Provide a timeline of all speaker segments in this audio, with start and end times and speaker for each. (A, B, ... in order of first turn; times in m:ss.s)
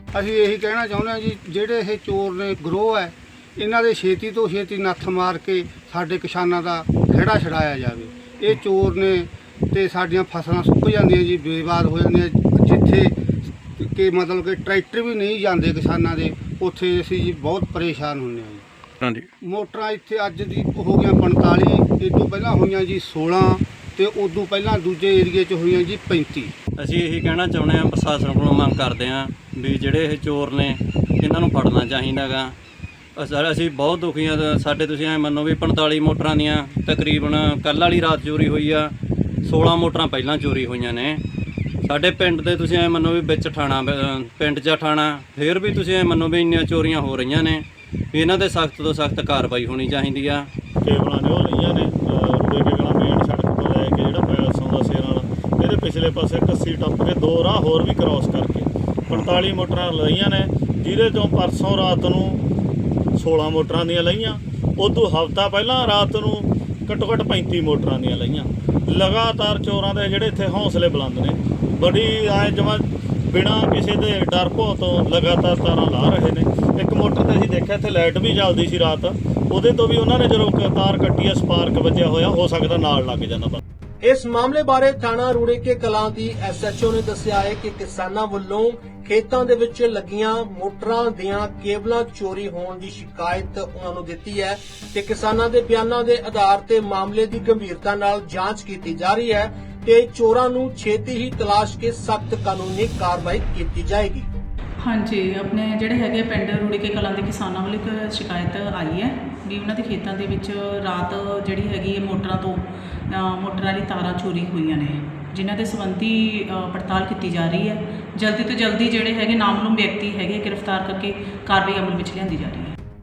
0:00.1-0:13.2 A
0:13.8-0:18.6 A
0:19.0-0:19.3 B
0:19.4-0:26.5 A
0:26.8-0:32.5 B
0:33.2-0:38.9 B
0:39.4-0:41.2 B
0:41.8-0:50.5 B
0:50.8-1:02.4 C
1:03.1-1:23.6 C
1:24.0-1:44.3 D
1:44.8-2:02.7 E